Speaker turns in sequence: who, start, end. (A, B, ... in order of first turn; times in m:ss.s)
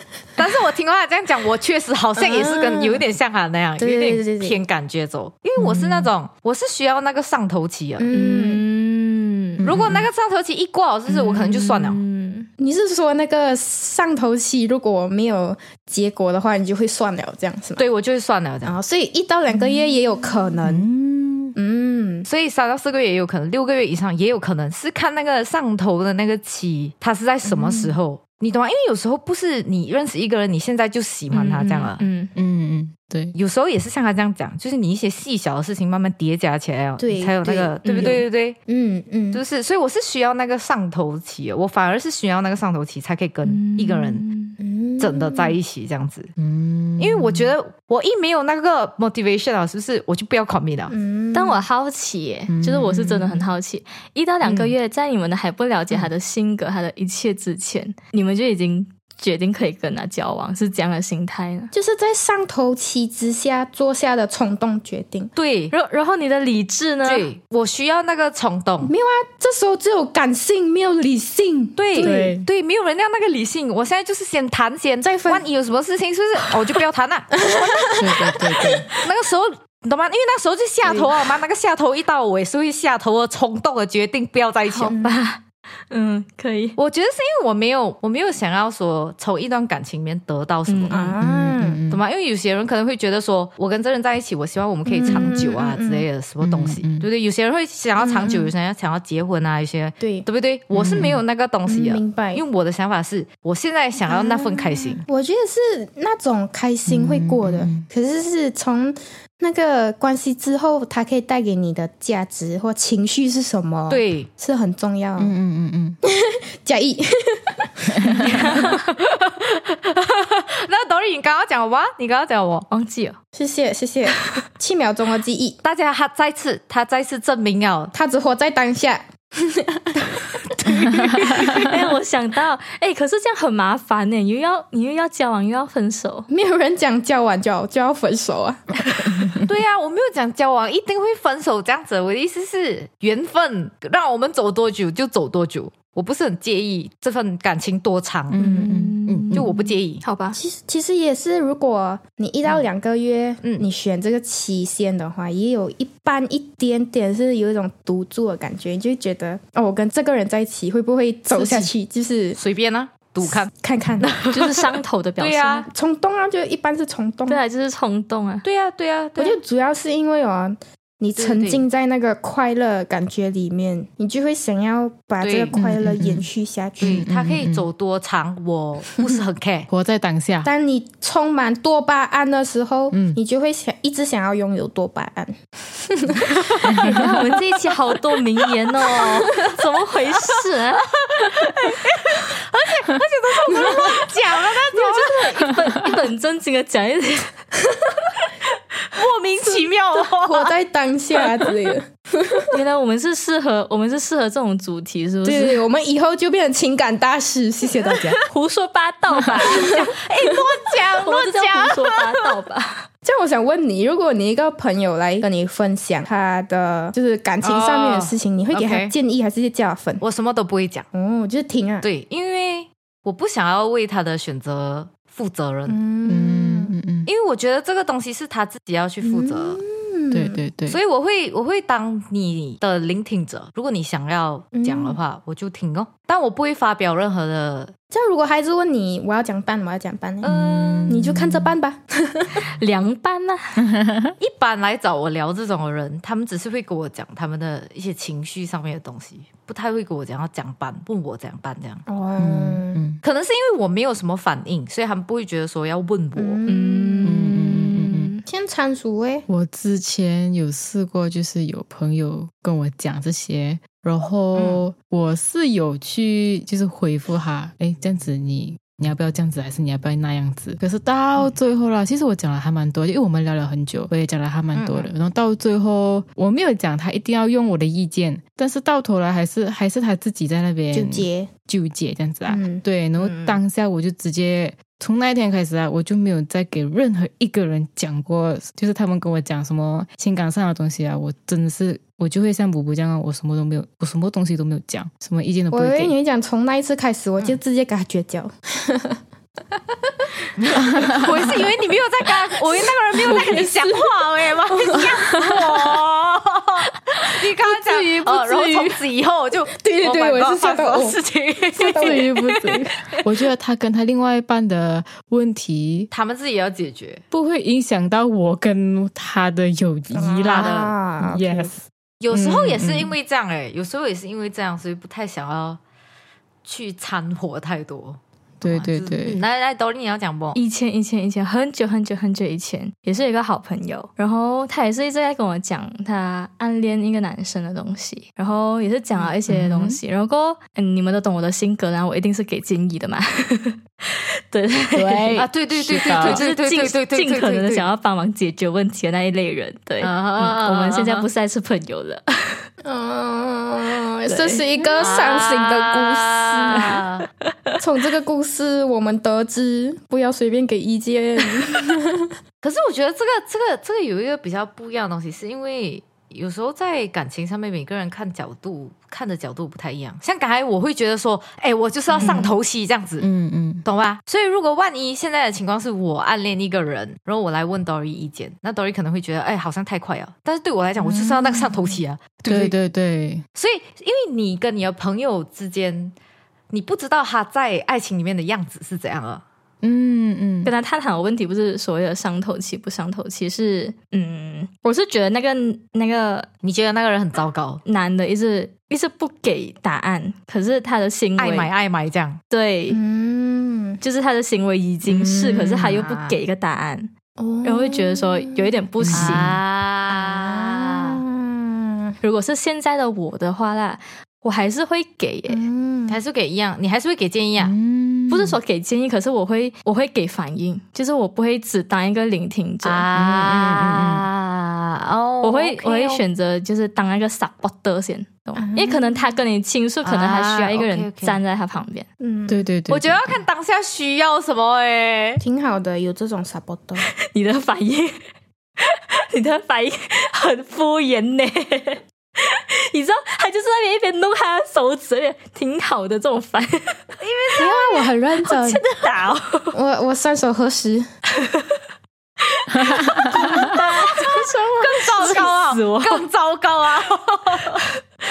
0:00.4-0:08.1 A
0:02.2-0:03.1 B
0:03.8-0:04.6 B
0:05.6-0:06.1 C
0:08.0-0:08.6 B
0:08.1-0:09.6 D
0:09.6-0:10.1 C
0:09.6-0:12.0 A
0:11.1-0:12.5 D
0:12.6-0:17.8 B
0:17.8-0:18.8 A
0:18.6-0:20.9 B
0:20.6-0:21.6 C
0:21.6-0:22.3 B
0:22.3-0:32.0 A
0:27.4-0:28.0 B
0:31.3-0:32.3 D
0:32.4-0:33.3 C
0:33.4-0:38.6 A
0:37.0-0:39.4 B
0:37.8-0:38.2 D
0:39.3-0:44.2 A
0:43.5-0:44.6 D
0:44.6-0:45.6 B
0:45.0-0:46.3 A
0:46.4-0:47.5 C
0:47.0-0:50.9 A
0:50.9-0:51.6 B
0:51.3-1:01.7 D
0:52.5-0:53.4 C
1:01.7-1:05.3 B
1:05.4-1:05.7 A
1:05.7-1:07.3 D
1:07.0-1:08.9 A
1:08.8-1:12.4 B
1:11.8-1:18.4 A
1:12.0-1:12.5 C
1:15.0-1:15.4 B
1:17.4-1:19.0 B
1:18.0-1:18.9 C
1:18.9-1:24.9 A
1:20.8-1:21.1 B
1:24.7-1:26.8 D
1:24.9-1:25.1 B
1:26.8-1:31.1 A
1:30.7-1:31.1 D
1:30.9-1:31.8 B
1:31.2-1:32.0 C
1:31.9-1:45.0 A
1:34.9-1:36.1 B
1:36.4-1:37.1 C
1:38.0-1:38.5 B
1:40.0-1:40.3 B
1:40.7-1:41.2 C
1:41.7-1:42.4 B
1:44.1-1:55.3 B
1:46.9-1:47.9 C
1:53.9-1:54.3 A
1:55.2-1:56.0 C
1:56.1-1:58.7 B
1:57.9-1:58.4 C
1:58.3-1:58.7 D
1:58.6-2:02.7 A
2:02.7-2:03.2 D
2:03.3-2:05.6 B
2:05.6-2:07.9 A
2:07.9-2:11.3 B
2:10.5-2:11.7 A
2:11.4-2:16.3 D
2:16.3-2:19.4 B
2:19.4-2:28.4 A
2:28.3-2:29.5 C
2:28.4-2:28.8 B
2:28.4-2:30.4 D
2:29.3-2:30.0 A
2:30.3-2:42.4 B
2:41.4-2:41.7 A
2:42.4-2:45.6 A
2:43.2-2:44.1 B
2:44.3-2:45.7 D
2:45.7-2:47.4 B
2:47.3-2:48.4 D
2:48.4-2:49.4 A
2:49.2-2:57.0 B
2:51.2-2:51.6 A
2:55.2-2:55.5 A
2:55.6-2:56.3 C
2:56.8-2:57.6 C
2:56.8-2:59.7 A
2:59.7-3:00.5 C
3:00.4-3:07.0 B
3:02.9-3:03.2 C
3:06.7-3:07.0 C
3:06.8-3:12.2 D
3:08.8-3:09.6 A
3:10.2-3:15.4 A
3:13.5-3:14.0 B
3:13.6-3:13.9 D
3:14.7-3:17.4 D
3:15.6-3:15.9 C
3:18.9-3:20.5 A
3:20.2-3:22.6 B
3:22.5-3:25.6 D
3:25.2-3:28.2 B
3:27.8-3:28.2 A
3:28.2-3:29.9 D
3:29.4-3:29.8 B
3:29.5-3:32.1 A
3:31.0-3:32.9 D
3:33.0-3:40.0 B
3:37.4-3:38.9 A
3:40.0-3:40.9 A
3:40.9-3:41.9 B
3:41.8-3:45.8 A
3:45.7-3:46.7 B
3:46.1-3:47.1 C
3:47.0-3:49.6 A
3:49.0-3:50.4 B
3:50.1-3:50.8 C
3:50.7-3:57.7 A
3:54.6-3:55.0 B
3:57.9-4:00.4 B
4:00.2-4:00.9 A
4:00.3-4:01.6 C
4:00.9-4:02.4 B
4:02.4-4:03.6 D
4:03.6-4:04.1 C
4:04.2-4:11.8 A
4:11.9-4:12.8 B
4:12.2-4:13.0 C
4:13.0-4:16.4 A
4:16.2-4:17.2 B
4:16.5-4:18.2 D
4:17.0-4:18.1 C
4:18.3-4:19.3 B
4:19.3-4:55.9 C
4:24.4-4:24.6 A
4:34.5-4:34.9 A
4:40.7-4:41.3 B
4:42.3-4:42.6 B
4:43.0-4:43.4 A
4:55.5-4:59.0 B
4:59.8-5:01.5 B
5:00.4-5:13.0 A
5:00.6-5:01.2 C
5:02.9-5:05.4 B
5:07.9-5:08.7 C
5:09.6-5:11.0 B
5:11.5-5:12.1 B
5:11.7-5:15.9 C
5:15.9-5:17.0 A
5:17.1-5:21.6 C
5:19.9-5:21.6 B
5:20.3-5:20.7 A
5:22.0-5:25.6 A
5:22.1-5:22.9 C
5:26.4-5:30.4 A
5:28.4-5:29.2 C
5:30.3-5:45.2 D
5:39.3-5:39.8 C
5:44.8-5:46.2 C
5:45.2-5:47.7 A
5:45.8-5:52.4 D
5:49.8-5:51.1 A
5:52.6-5:56.8 B
5:54.1-5:54.4 D
5:54.8-5:57.1 A
5:57.6-6:02.1 B
6:02.4-6:13.1 A
6:11.9-6:12.3 B
6:13.0-6:13.6 C
6:13.6-6:22.5 A
6:20.8-6:21.2 C
6:22.3-6:23.2 C
6:23.4-6:25.9 A
6:26.5-6:29.2 A
6:29.6-6:30.5 C
6:30.4-6:36.3 D
6:36.4-6:37.6 A
6:37.6-6:41.5 D
6:41.2-6:42.2 A
6:42.3-6:42.8 D
6:42.7-6:43.8 B
6:43.8-6:46.9 D
6:44.9-6:45.8 C
6:45.6-6:46.2 A
6:47.2-6:48.5 B
6:47.4-6:49.4 D
6:48.8-6:49.4 C
6:48.9-6:51.0 A
6:49.9-6:52.0 B
6:52.0-6:55.5 D
6:55.3-6:56.0 B
6:55.9-6:57.6 A
6:57.4-6:58.4 C
6:58.1-7:02.8 D
7:02.6-7:06.0 A
7:02.9-7:04.0 C
7:05.2-7:11.9 D
7:08.4-7:09.1 B
7:09.8-7:11.2 A
7:12.0-7:12.4 B
7:12.3-7:13.2 C
7:12.7-7:15.2 A
7:15.2-7:16.8 B
7:16.8-7:18.0 D
7:18.6-7:26.8 D
7:27.0-7:27.9 A
7:27.4-7:28.6 B
7:28.2-7:29.6 D
7:29.5-7:30.9 B
7:31.1-7:31.6 D
7:32.3-7:36.1 D
7:32.7-7:33.5 C
7:33.4-7:37.6 A